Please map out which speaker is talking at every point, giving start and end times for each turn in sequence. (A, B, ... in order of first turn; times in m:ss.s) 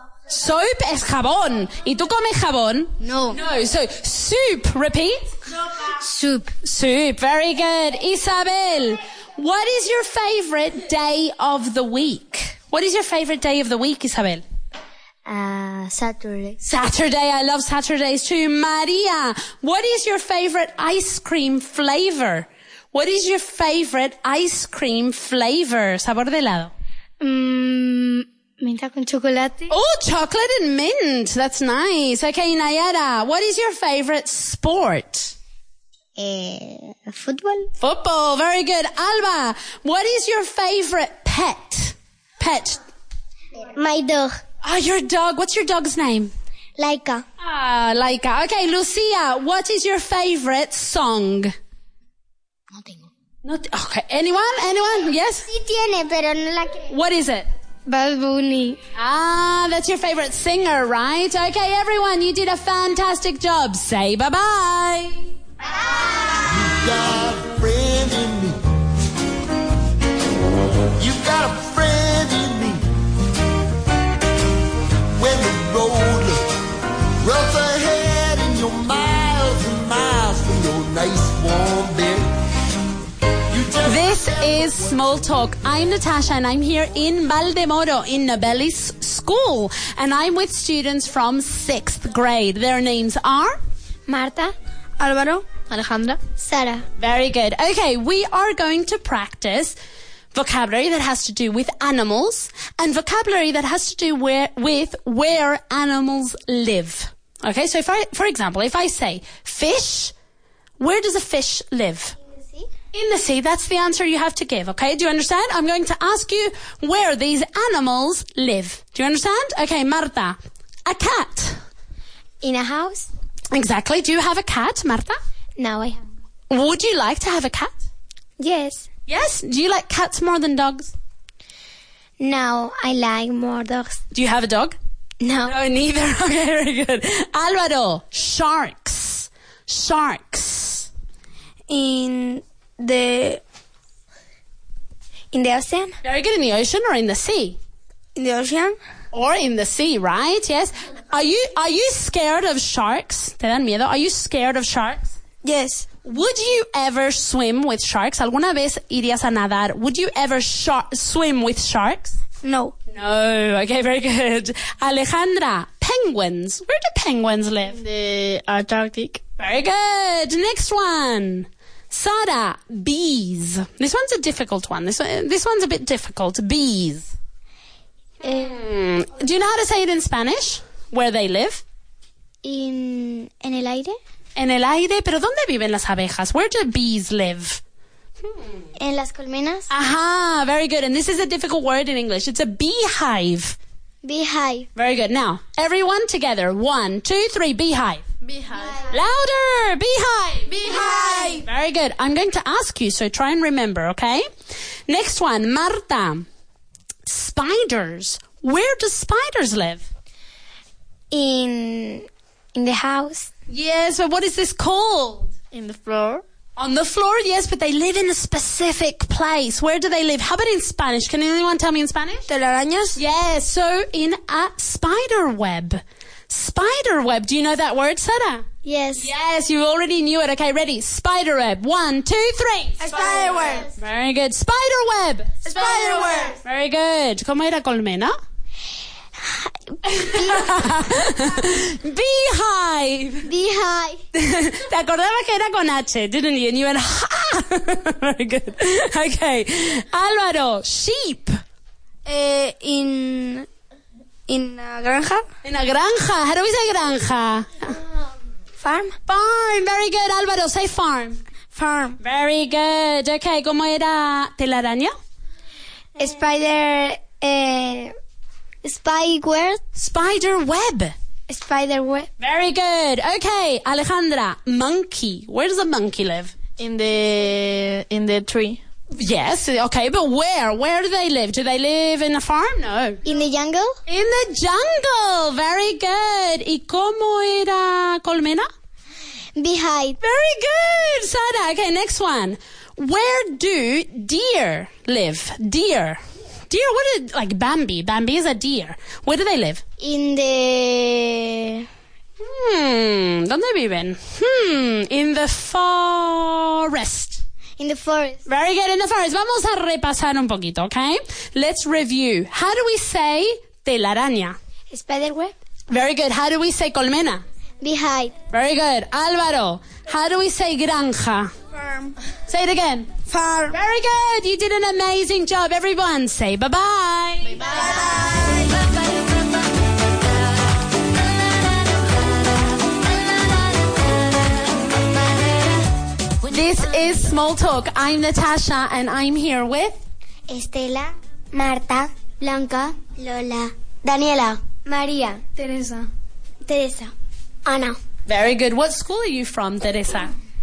0:00.3-0:05.4 A
0:06.6-0:14.4 A
0:15.3-0:16.6 B
0:16.6-0:26.7 A
0:27.2-0:29.7 C
0:29.7-0:35.3 A
0:36.2-0:37.7 B
0:37.8-0:42.8 A
0:43.6-0:44.4 B
0:44.6-0:46.3 A
0:46.8-0:47.2 B
0:47.4-0:51.5 A
0:53.4-0:55.5 A
0:55.5-0:56.9 B
0:56.9-0:57.5 A
0:57.9-0:58.8 C
0:59.0-1:05.3 A
1:06.4-1:08.6 D
1:11.0-1:12.8 D
1:15.2-1:16.4 D
1:17.2-1:22.3 D
1:23.5-1:25.2 D
1:23.8-1:33.6 A
1:36.4-1:36.8 B
1:37.0-1:39.8 A
1:40.3-1:50.1 A
1:50.8-1:52.2 A
1:52.9-2:01.6 A
2:03.5-2:05.2 A
2:06.5-2:07.9 A
2:09.1-2:10.9 A
2:12.2-2:14.0 B
2:14.1-2:14.8 A
2:15.4-2:20.9 A
2:21.7-2:23.4 C
2:25.3-2:25.9 C
2:26.0-2:27.6 A
2:28.2-2:28.8 C
2:29.1-2:35.2 A
2:35.4-2:35.9 C
2:36.0-2:42.2 A
2:42.4-2:42.7 C
2:42.9-2:47.8 A
2:47.7-2:49.2 E
2:49.4-2:57.1 A
2:58.2-3:01.6 A
3:02.4-3:04.0 B
3:04.4-3:07.6 A
3:08.8-3:09.7 B
3:09.7-3:13.6 A
3:14.0-3:14.7 B
3:14.8-3:18.1 A
3:18.2-3:18.8 E
3:18.6-3:18.9 B
3:18.9-3:24.3 A
3:24.9-3:26.3 A
3:27.1-3:29.9 A
3:32.6-3:33.2 C
3:33.5-3:35.4 A
3:35.5-3:36.2 E
3:36.6-3:42.3 A
3:42.3-3:43.0 C
3:43.0-3:58.2 A
3:52.8-3:53.6 C
3:53.4-3:53.7 B
3:55.6-3:56.3 B
3:59.9-4:03.3 A
4:03.3-4:04.0 B
4:04.2-4:11.4 A
4:12.1-4:13.5 C
4:14.3-4:15.2 C
4:15.4-4:17.8 A
4:18.6-4:18.9 C
4:19.1-4:21.2 A
4:21.6-4:22.0 C
4:22.0-4:24.9 A
4:26.0-4:27.9 B
4:28.6-4:29.6 B
4:29.8-4:30.9 A
4:31.3-4:32.1 C
4:32.2-4:36.4 A
4:36.6-4:38.6 E
4:38.9-4:43.0 A
4:43.2-4:43.7 B
4:43.9-4:48.5 A
4:49.4-4:50.0 B
4:50.0-4:59.6 A
4:59.8-5:01.2 B
5:02.2-5:07.2 A
5:07.6-5:08.2 B
5:08.3-5:14.4 A
5:15.7-5:17.2 A
5:17.6-5:18.1 B
5:18.3-5:21.3 A
5:22.3-5:22.9 A
5:23.5-5:27.8 A
5:36.2-5:39.8 A
5:40.3-5:45.2 B
5:45.4-5:45.9 C
5:46.5-5:46.9 B
5:47.5-5:47.8 B
5:48.1-5:50.1 A